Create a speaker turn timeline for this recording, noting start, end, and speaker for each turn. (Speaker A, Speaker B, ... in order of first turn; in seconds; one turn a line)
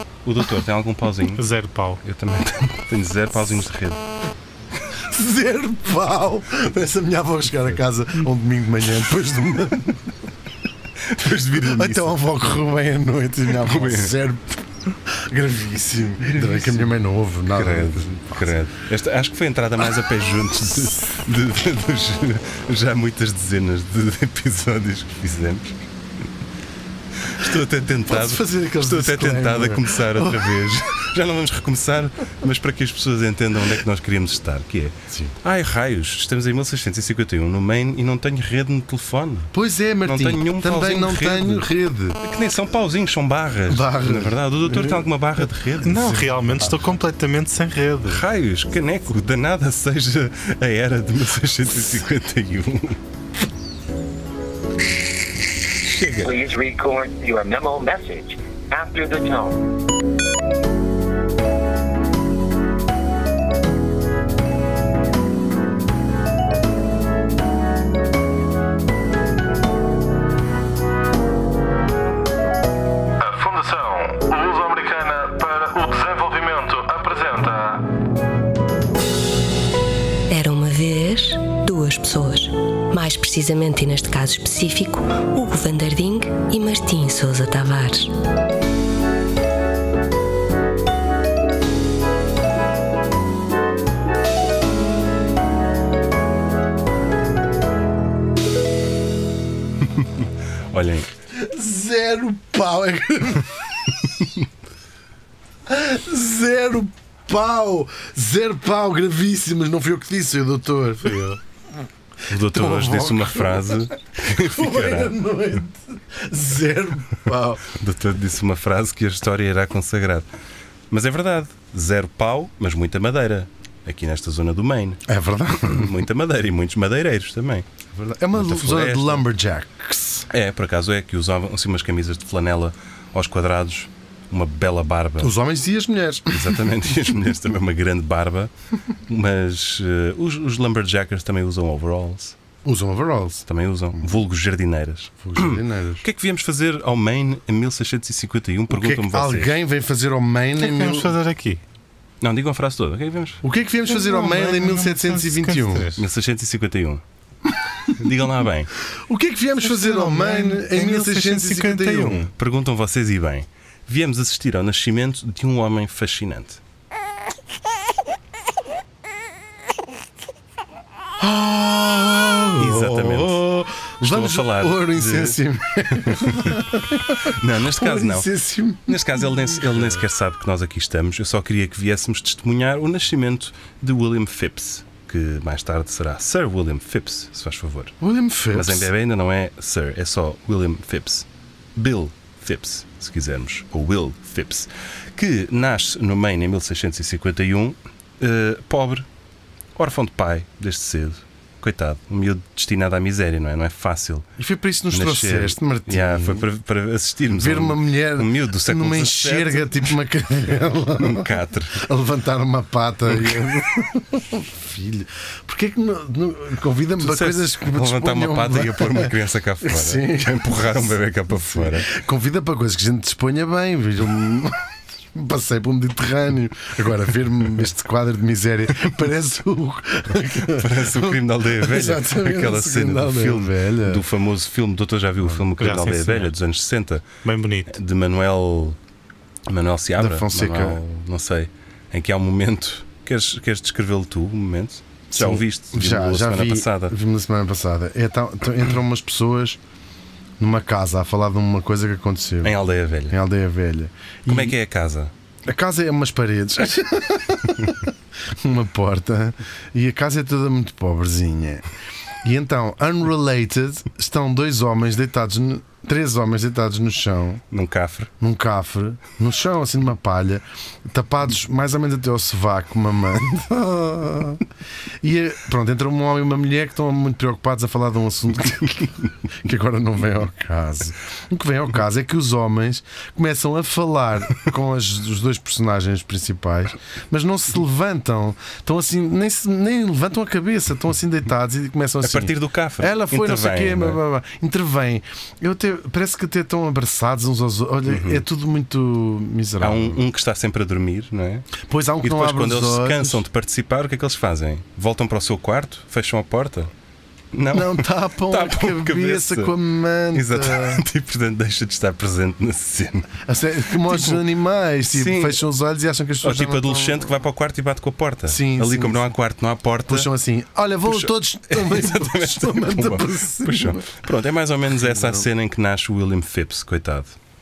Speaker A: 0.2-1.4
Speaker B: 1.4-2.0
Speaker A: 2.0-4.0
Speaker C: 4.9-10.2
Speaker A: 11.0-12.6
Speaker C: 11.5-18.4
Speaker A: 13.5-14.2
Speaker A: 16.2-16.9
Speaker A: 17.5-25.9
Speaker A: 27.2-39.5
Speaker C: 28.0-30.7
Speaker C: 35.1-35.3
Speaker C: 39.5-42.2
Speaker A: 40.0-41.7
Speaker A: 42.2-46.2
Speaker C: 43.7-45.1
Speaker B: 45.8-48.2
Speaker C: 46.0-46.9
Speaker A: 48.1-53.0
Speaker A: 55.8-56.3
Speaker D: 56.2-59.7
Speaker E: 73.2-77.9
Speaker F: 80.3-88.1
Speaker A: 99.9-101.1
Speaker C: 101.3-104.0
Speaker C: 105.7-111.3
Speaker B: 111.0-111.4
Speaker A: 112.3-115.2
Speaker C: 112.3-117.7
Speaker A: 117.7-120.3
Speaker A: 120.9-125.0
Speaker C: 125.1-126.0
Speaker A: 125.5-127.6
Speaker C: 127.9-130.3
Speaker A: 128.3-129.2
Speaker A: 130.3-135.3
Speaker C: 135.2-136.7
Speaker A: 136.3-138.5
Speaker A: 139.0-142.3
Speaker C: 142.6-144.1
Speaker A: 143.5-149.6
Speaker C: 145.2-146.0
Speaker C: 148.7-151.1
Speaker B: 150.6-151.6
Speaker A: 152.2-153.4
Speaker C: 153.4-155.9
Speaker B: 153.9-156.1
Speaker A: 155.9-157.0
Speaker A: 157.9-158.7
Speaker C: 158.8-162.2
Speaker B: 159.6-162.3
Speaker A: 162.3-166.6
Speaker C: 171.2-180.0
Speaker A: 172.6-173.5
Speaker A: 174.0-175.4
Speaker A: 175.9-176.6
Speaker A: 177.2-178.3
Speaker A: 178.8-187.9
Speaker C: 188.0-188.9
Speaker A: 188.5-199.1
Speaker A: 199.8-204.3
Speaker C: 204.4-206.5
Speaker A: 204.9-209.9
Speaker C: 207.3-234.0
Speaker A: 211.0-211.8
Speaker A: 217.0-221.9
Speaker A: 230.4-237.0
Speaker C: 235.2-235.4
Speaker B: 235.6-236.3
Speaker B: 237.2-237.7
Speaker A: 237.7-238.8
Speaker A: 239.5-246.9
Speaker C: 240.0-240.8
Speaker C: 245.1-249.6
Speaker C: 250.4-252.6
Speaker A: 252.4-253.2
Speaker C: 253.1-254.6
Speaker A: 254.3-255.1
Speaker C: 255.4-261.7
Speaker C: 262.2-267.4
Speaker A: 267.5-268.1
Speaker C: 268.2-274.4
Speaker C: 275.0-300.0
Speaker A: 292.0-294.0
Speaker A: 297.9-298.2
Speaker A: 299.6-306.7
Speaker C: 301.6-303.2
Speaker A: 307.3-309.5
Speaker C: 307.5-310.8
Speaker A: 310.1-313.1
Speaker C: 313.2-317.1
Speaker A: 313.9-314.1
Speaker A: 314.9-315.4
Speaker A: 316.2-320.1
Speaker C: 318.3-319.1
Speaker C: 319.9-323.9
Speaker A: 320.9-327.1
Speaker C: 324.7-325.3